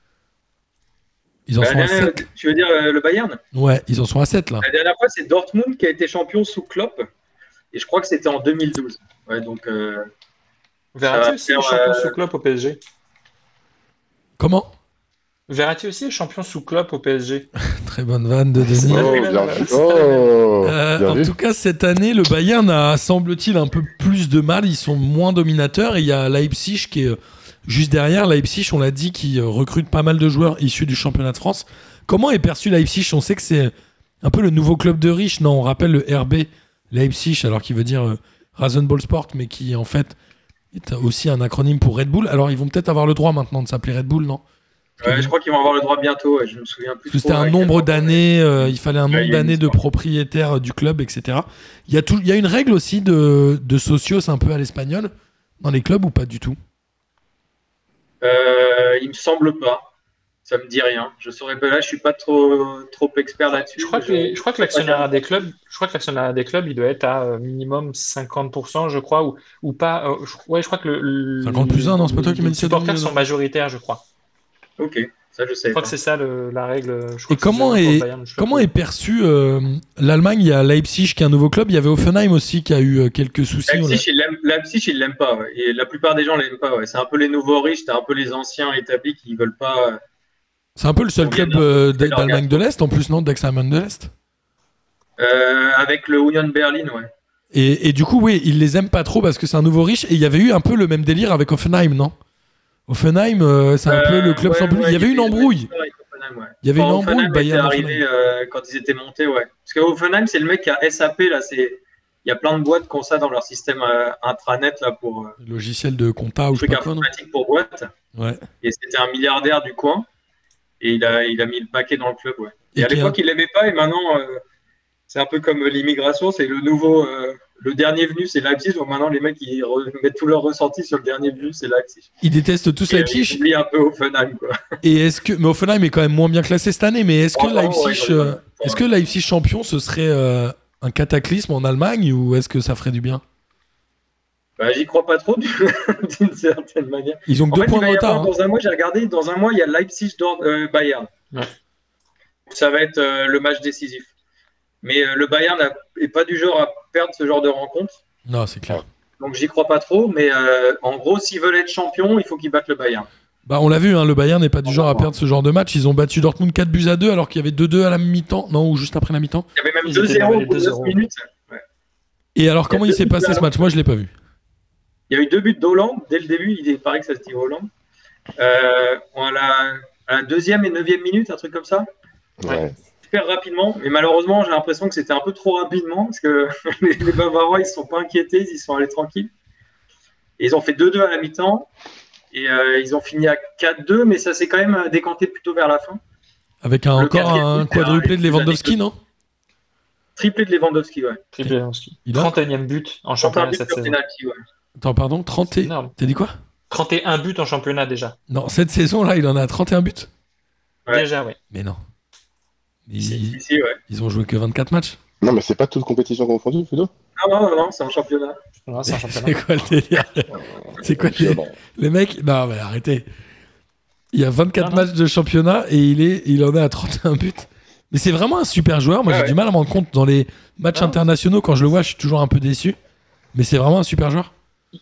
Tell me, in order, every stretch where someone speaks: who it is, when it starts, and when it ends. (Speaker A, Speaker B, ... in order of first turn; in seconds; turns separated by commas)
Speaker A: 1.5-2.2, Speaker B: 1.6-3.4, Speaker A: 3.5-4.6, Speaker B: 4.6-7.1, Speaker B: 7.7-10.1, Speaker C: 10.9-12.8, Speaker B: 11.1-12.1, Speaker A: 14.4-14.7, Speaker C: 15.5-17.5, Speaker A: 17.6-19.1, Speaker D: 18.7-21.3, Speaker C: 18.7-20.3, Speaker A: 20.6-40.1, Speaker A: 40.7-44.4, Speaker B: 45.0-49.8, Speaker A: 45.0-45.3, Speaker A: 47.1-56.6, Speaker B: 58.2-59.9, Speaker B: 60.4-65.1, Speaker C: 63.8-74.0, Speaker A: 71.4-73.2, Speaker B: 74.8-75.9, Speaker C: 75.7-78.7, Speaker A: 77.3-84.0, Speaker B: 83.7-90.0, Speaker A: 90.8-94.1, Speaker B: 91.2-92.6, Speaker B: 95.2-97.1, Speaker A: 97.5-102.1, Speaker A: 102.9-105.7, Speaker B: 103.9-115.3, Speaker A: 106.6-108.0, Speaker A: 115.4-117.1, Speaker B: 116.5-117.9, Speaker A: 118.1-118.4, Speaker B: 118.6-120.0, Speaker B: 120.8-124.4, Speaker A: 122.7-123.2, Speaker B: 125.1-132.1, Speaker A: 132.2-133.4, Speaker B: 132.9-134.6, Speaker A: 134.8-143.2, Speaker B: 137.3-138.8, Speaker B: 144.6-151.1, Speaker A: 147.3-148.3, Speaker B: 152.5-154.1, Speaker B: 154.8-158.0, Speaker A: 158.2-158.8, Speaker B: 159.2-163.1, Speaker A: 163.4-169.4, Speaker B: 164.7-165.1, Speaker B: 169.6-171.6, Speaker C: 169.8-171.0, Speaker A: 172.3-174.1, Speaker B: 172.7-173.5, Speaker B: 175.1-177.7, Speaker B: 178.4-181.9, Speaker D: 182.4-182.7, Speaker B: 183.0-189.3, Speaker B: 190.4-191.7, Speaker B: 192.3-196.0, Speaker A: 196.6-199.0, Speaker B: 196.9-198.8, Speaker B: 200.2-201.2, Speaker C: 201.3-204.0, Speaker A: 202.1-202.3, Speaker B: 203.2-204.4, Speaker A: 204.8-206.3, Speaker C: 205.6-205.9, Speaker C: 206.7-208.2, Speaker A: 208.3-210.1, Speaker C: 210.9-211.4, Speaker A: 211.5-211.8, Speaker A: 212.9-215.0, Speaker B: 213.0-213.8, Speaker D: 215.2-216.9, Speaker B: 217.2-218.4, Speaker C: 218.6-219.4, Speaker A: 218.9-223.1, Speaker D: 220.8-221.5, Speaker A: 224.1-232.8, Speaker C: 224.6-224.9, Speaker B: 229.1-229.3, Speaker A: 233.3-234.3